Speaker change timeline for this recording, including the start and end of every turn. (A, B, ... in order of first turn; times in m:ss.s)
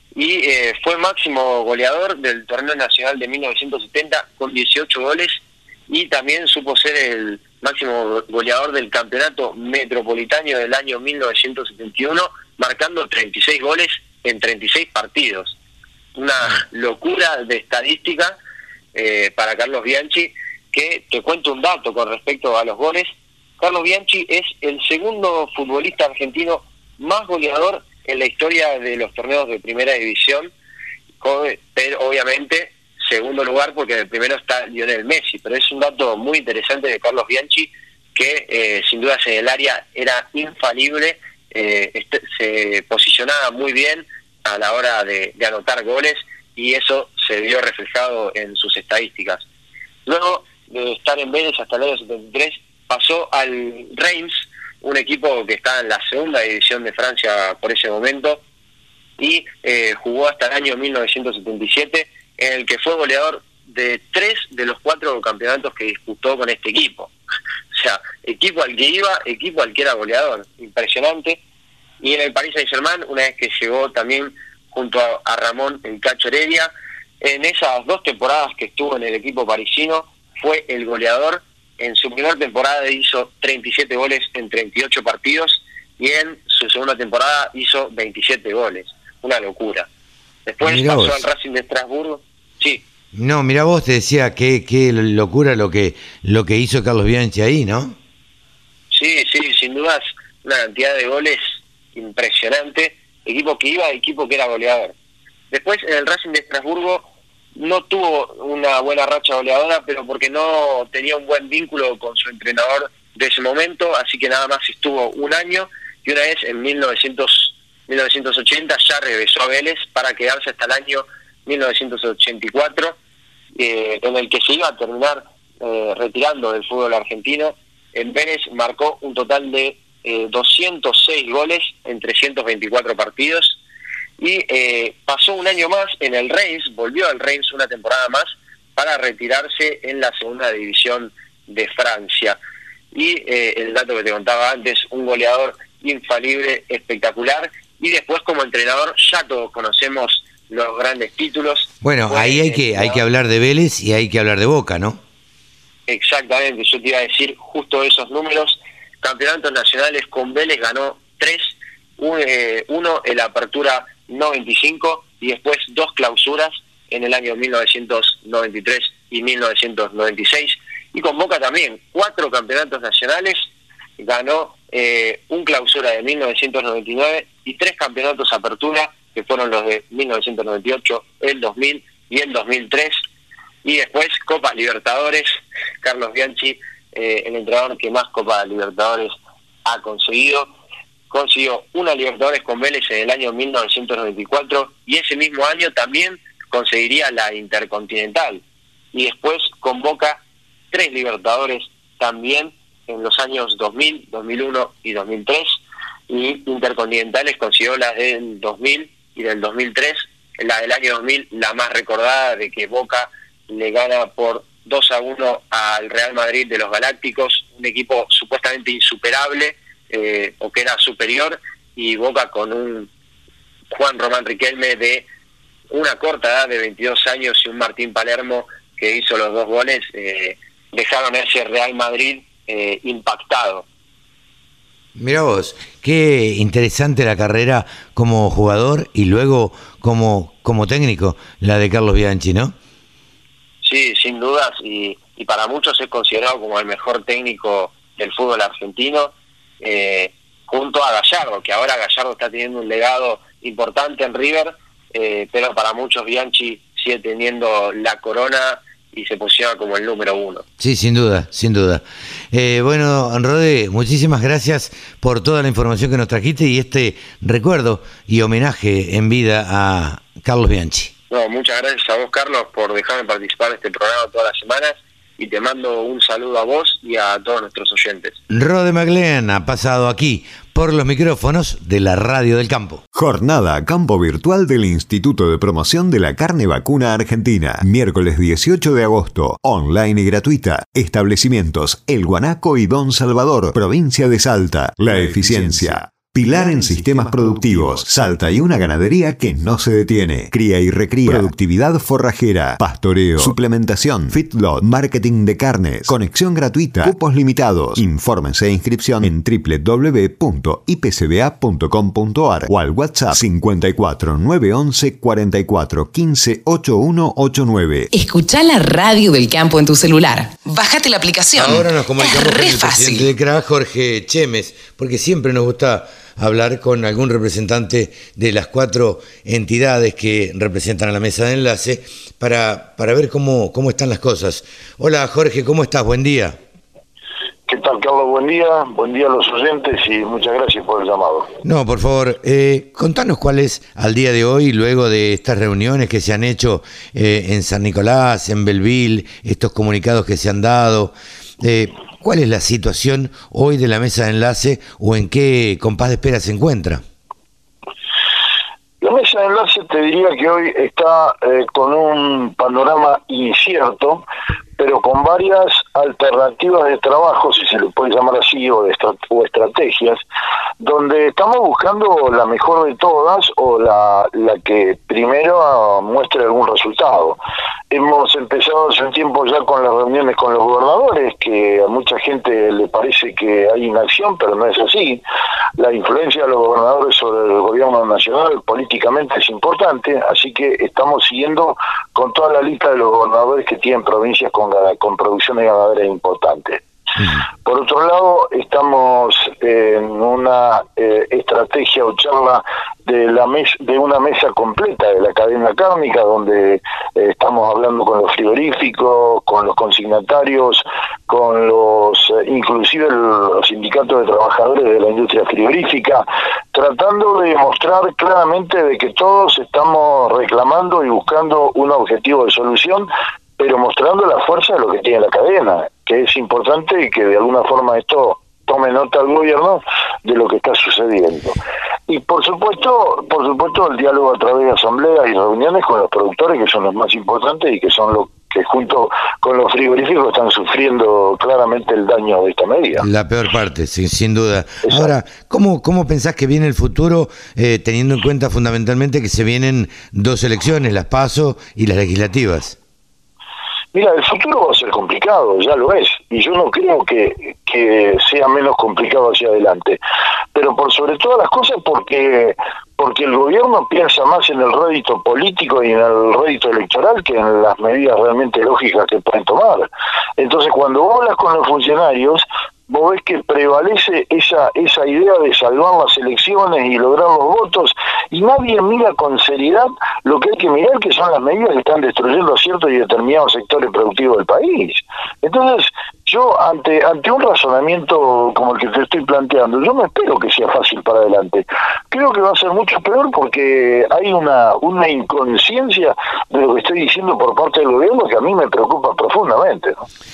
0:00.2-0:15.6 A
0:16.2-0:18.4 A
0:18.9-0:30.5 A
0:31.2-0:49.4 A
0:50.1-0:58.4 A
0:59.2-1:07.1 A
1:07.7-1:11.4 A
1:12.0-1:29.9 A
1:30.5-1:32.8 A
1:30.6-1:31.3 B
1:33.1-1:38.0 B
1:38.9-1:44.9 A
1:45.5-2:03.0 A
2:03.6-2:13.6 A
2:14.2-2:22.4 A
2:22.9-2:33.0 A
2:31.8-2:35.0 B
2:35.9-2:53.4 A
2:54.0-3:03.0 A
3:03.6-3:10.5 A
3:11.1-3:18.4 A
3:18.9-3:25.6 A
3:26.1-3:42.9 A
3:43.7-3:45.0 A
3:45.7-3:53.6 A
3:55.0-4:02.5 B
4:03.6-4:20.4 A
4:20.6-4:30.9 B
4:31.1-4:38.2 A
4:38.3-4:42.8 B
4:43.0-5:17.9 C
5:17.9-5:23.1 D
5:21.4-5:36.4 B
5:37.5-5:41.3 E
5:41.4-5:56.8 B
5:58.8-6:04.0 E
6:04.6-6:10.0 E
6:10.6-6:17.2 E
6:17.7-6:25.0 E
6:25.6-6:36.6 E
6:37.4-7:11.4 E
7:11.9-7:22.8 E
7:22.8-7:32.6 B
7:24.6-7:24.9 E
7:33.7-7:39.8 E
7:40.3-8:19.9 E